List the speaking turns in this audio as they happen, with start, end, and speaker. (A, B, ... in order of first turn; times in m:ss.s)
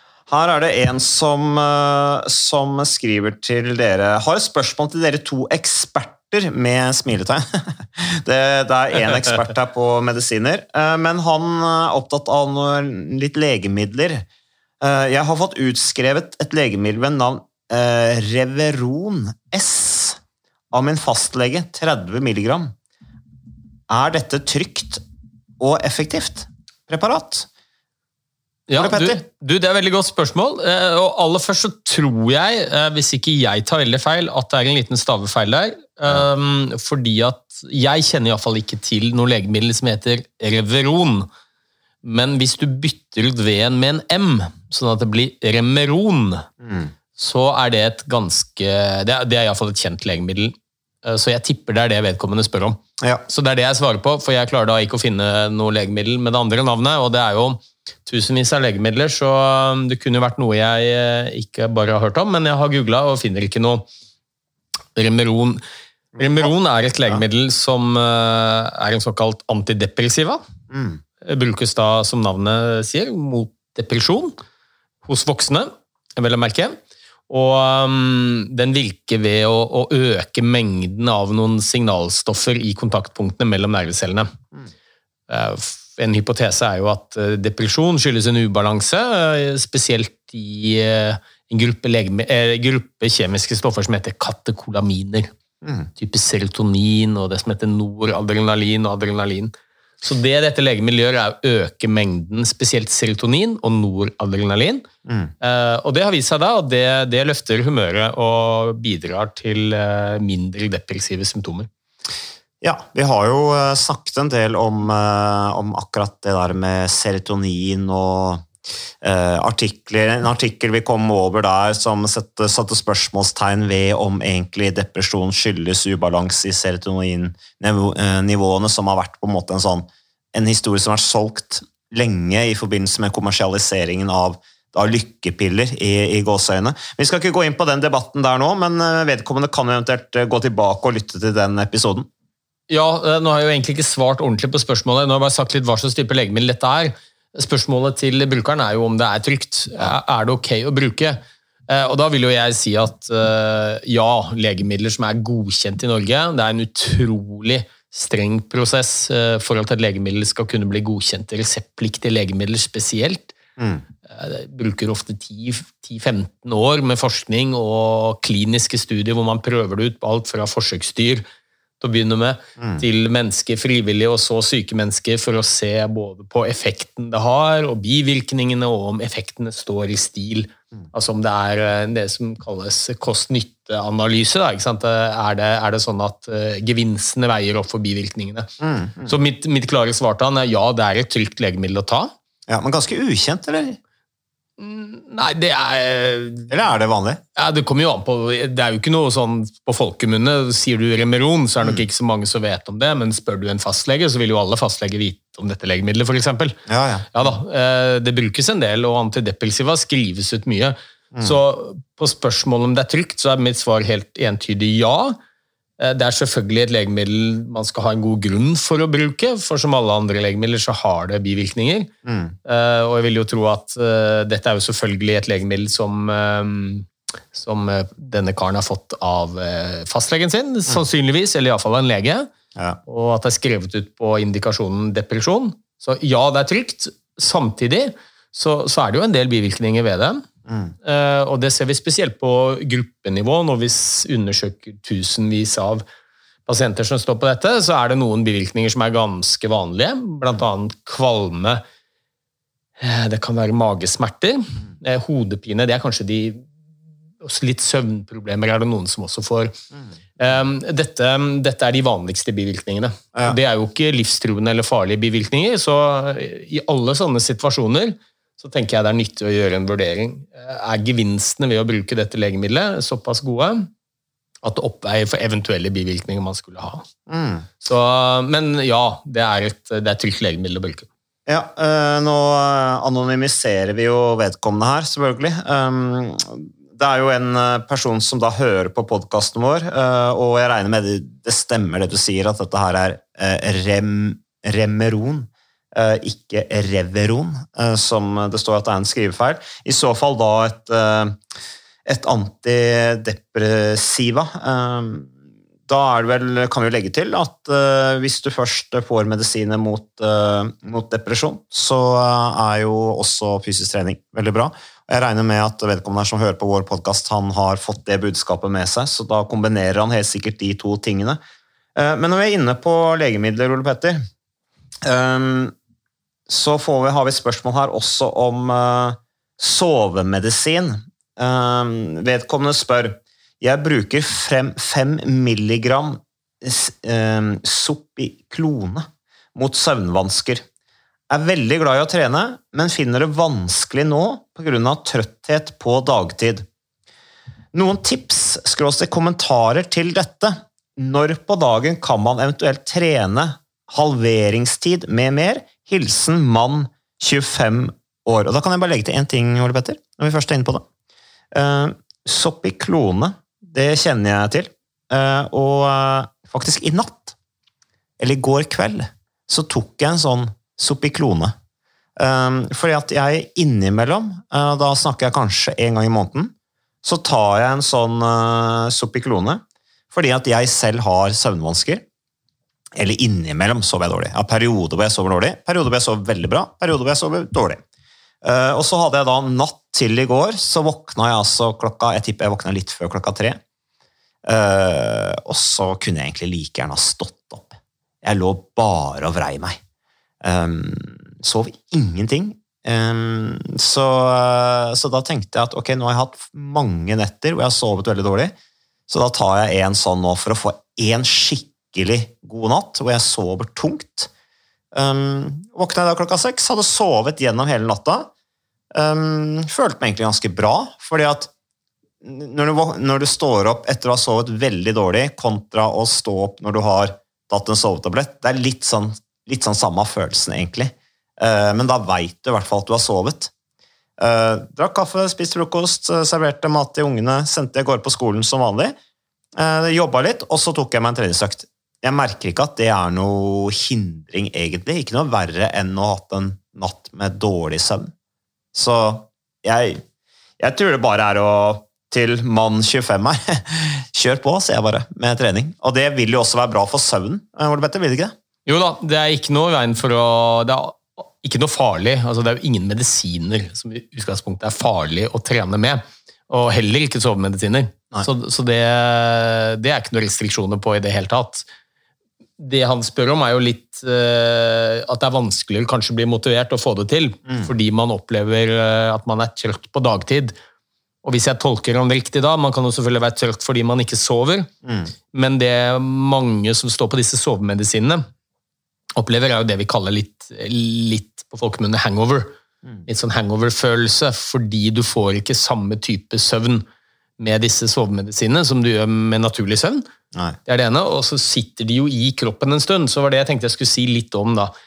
0:00.3-0:14.3 A
0:14.8-0:20.2 A
0:20.7-0:22.7 A
0:23.9-0:25.0 A
0:25.6-0:27.5 A
0:28.7-0:41.3 B
0:28.7-0:29.2 A
0:42.0-0:46.5 B
0:46.6-0:46.9 A
0:47.2-1:03.8 B
1:05.0-1:05.6 B
1:06.2-1:06.5 A
1:06.2-1:10.4 B
1:10.7-1:11.0 A
1:11.2-1:14.4 B
1:15.0-1:16.8 B
1:17.3-1:24.3 B
1:25.3-1:35.3 B
1:35.6-1:35.9 A
1:36.0-1:39.5 B
1:40.0-1:44.8 B
1:45.0-1:45.3 A
1:45.4-1:51.7 B
1:52.6-1:58.4 A
1:59.0-2:22.1 A
2:22.7-2:43.3 B
2:43.6-2:43.8 A
2:44.1-2:51.2 B
2:51.8-3:08.5 B
3:08.6-3:09.2 A
3:09.0-3:12.1 B
3:12.5-3:13.8 A
3:14.6-3:16.5 B
3:16.5-3:17.2 A
3:17.4-3:26.6 B
3:26.7-3:27.3 A
3:27.1-3:35.2 B
3:35.8-3:41.9 B
3:42.0-3:42.3 A
3:42.4-3:52.3 B
3:52.9-4:00.2 B
4:00.5-4:00.7 A
4:00.8-4:05.8 B
4:06.4-4:11.6 B
4:12.8-4:16.4 B
4:17.2-4:19.5 B
4:20.2-4:33.7 B
4:34.4-4:36.8 B
4:37.1-4:37.4 A
4:37.6-4:40.9 B
4:41.3-5:01.2 A
5:01.8-5:05.1 A
5:05.7-5:21.2 A
5:21.7-5:24.0 A
5:24.8-5:25.5 A
5:26.3-5:40.4 A
5:41.1-5:46.4 A
5:47.5-6:00.6 A
6:01.3-6:07.1 A
6:08.0-6:11.3 A
6:12.0-6:21.8 A
6:22.7-6:27.6 A
6:28.2-6:33.4 A
6:34.2-6:39.6 A
6:40.2-6:48.3 A
6:48.9-6:54.1 A
6:54.7-6:58.1 A
6:58.7-7:01.3 A
7:02.0-7:13.3 A
7:14.0-7:18.7 A
7:19.4-7:27.9 A
7:28.5-7:29.8 A
7:30.4-7:38.1 A
7:38.4-7:51.4 B
7:52.4-8:00.3 B
8:01.0-8:04.5 B
8:04.6-8:04.9 A
8:05.1-8:08.0 B
8:09.0-8:12.3 B
8:12.8-8:16.6 B
8:17.2-8:19.8 B
8:20.5-8:24.5 B